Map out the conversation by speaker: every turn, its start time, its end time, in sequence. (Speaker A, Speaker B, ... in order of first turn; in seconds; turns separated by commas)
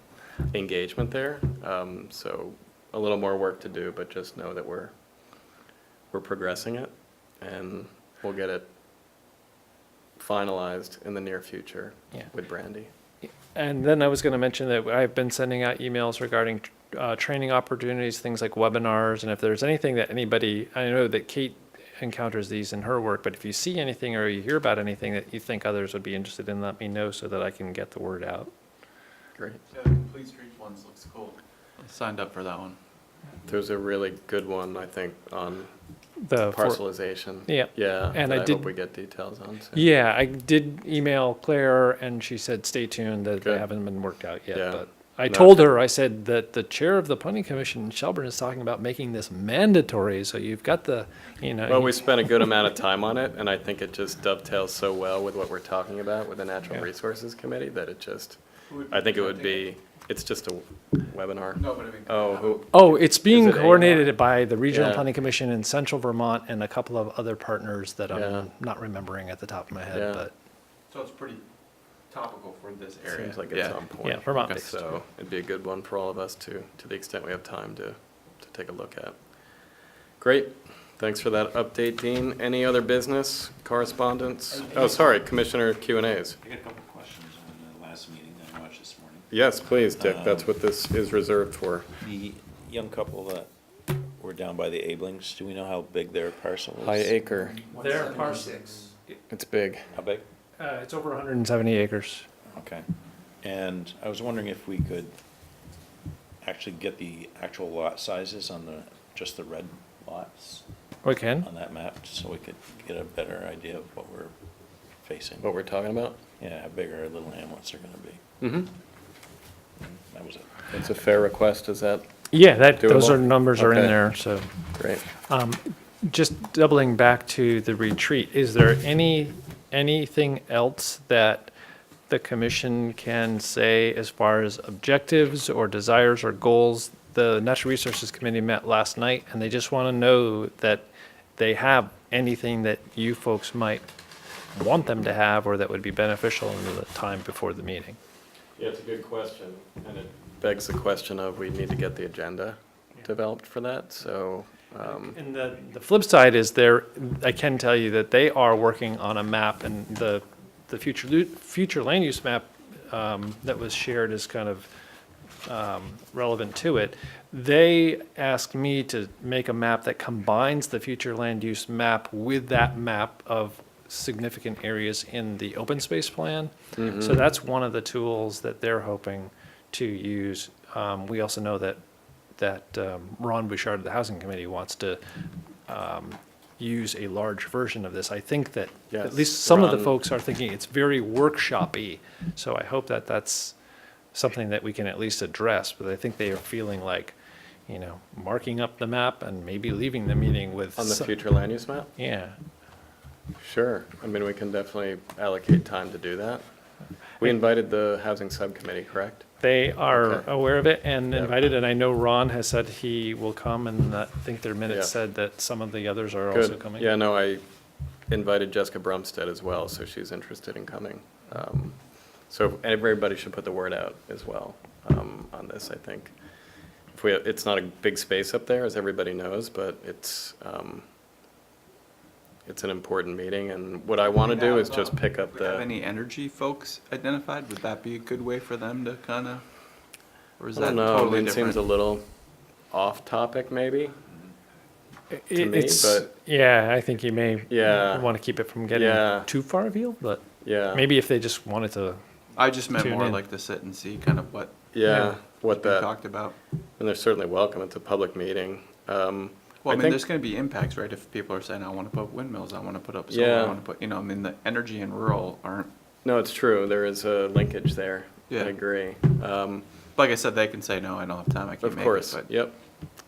Speaker A: 0.5-4.9, Speaker A: 6.1-8.7, Speaker A: 10.2-12.9, Speaker B: 13.5-28.5, Speaker C: 29.7-32.8, Speaker A: 33.5-35.7, Speaker B: 36.2-36.8, Speaker A: 36.5-39.9, Speaker B: 37.5-38.7, Speaker B: 39.7-52.1, Speaker A: 43.4-43.7, Speaker A: 44.5-45.7, Speaker A: 51.7-64.1, Speaker C: 58.7-59.7, Speaker C: 61.6-62.5, Speaker B: 62.7-70.3, Speaker A: 64.7-65.1, Speaker A: 68.1-68.5, Speaker A: 69.9-70.2, Speaker C: 70.9-71.4, Speaker C: 72.1-73.8, Speaker A: 73.1-79.2, Speaker B: 74.0-74.9, Speaker C: 74.4-74.7, Speaker A: 80.2-86.4, Speaker D: 86.4-89.3, Speaker A: 89.3-91.9, Speaker D: 90.0-90.5, Speaker D: 92.0-93.5, Speaker D: 94.2-97.2, Speaker A: 96.8-97.6, Speaker C: 97.7-98.8, Speaker B: 97.7-98.6, Speaker A: 99.3-99.8, Speaker D: 99.9-100.2, Speaker B: 100.6-102.3, Speaker D: 102.5-102.9, Speaker D: 103.4-105.2, Speaker D: 106.4-110.7, Speaker B: 111.0-111.5, Speaker D: 111.4-114.3, Speaker D: 115.0-115.5, Speaker A: 115.4-116.2, Speaker D: 116.4-118.2, Speaker A: 118.4-118.7, Speaker D: 119.8-120.6, Speaker A: 120.7-122.0, Speaker B: 122.3-124.5, Speaker A: 122.8-124.0, Speaker A: 124.8-125.0, Speaker B: 125.3-131.5, Speaker B: 132.1-140.9, Speaker B: 141.4-143.8, Speaker B: 144.5-148.0, Speaker A: 148.6-155.2, Speaker B: 154.8-164.7, Speaker B: 165.4-181.8, Speaker A: 176.8-177.2, Speaker B: 182.4-185.0, Speaker B: 185.7-193.6, Speaker A: 188.9-190.0, Speaker B: 194.1-197.2, Speaker B: 197.7-201.1, Speaker A: 200.8-201.9, Speaker B: 202.0-202.4, Speaker A: 203.4-206.4, Speaker A: 207.2-209.3, Speaker B: 209.4-216.9, Speaker A: 209.9-210.3, Speaker A: 214.7-214.9, Speaker A: 216.3-217.4, Speaker A: 218.1-226.1, Speaker A: 226.9-230.8, Speaker A: 232.5-235.7, Speaker C: 234.2-239.4, Speaker C: 240.4-241.6, Speaker A: 240.6-242.1, Speaker A: 242.7-243.9, Speaker B: 245.1-252.0, Speaker A: 245.3-246.1, Speaker A: 247.5-248.1, Speaker A: 248.7-249.3, Speaker A: 250.4-250.9, Speaker C: 252.4-256.4, Speaker B: 252.8-253.2, Speaker A: 254.7-255.9, Speaker A: 256.8-260.0, Speaker C: 259.6-265.7, Speaker A: 263.1-263.6, Speaker A: 266.0-269.6, Speaker C: 270.0-272.3, Speaker A: 271.6-272.6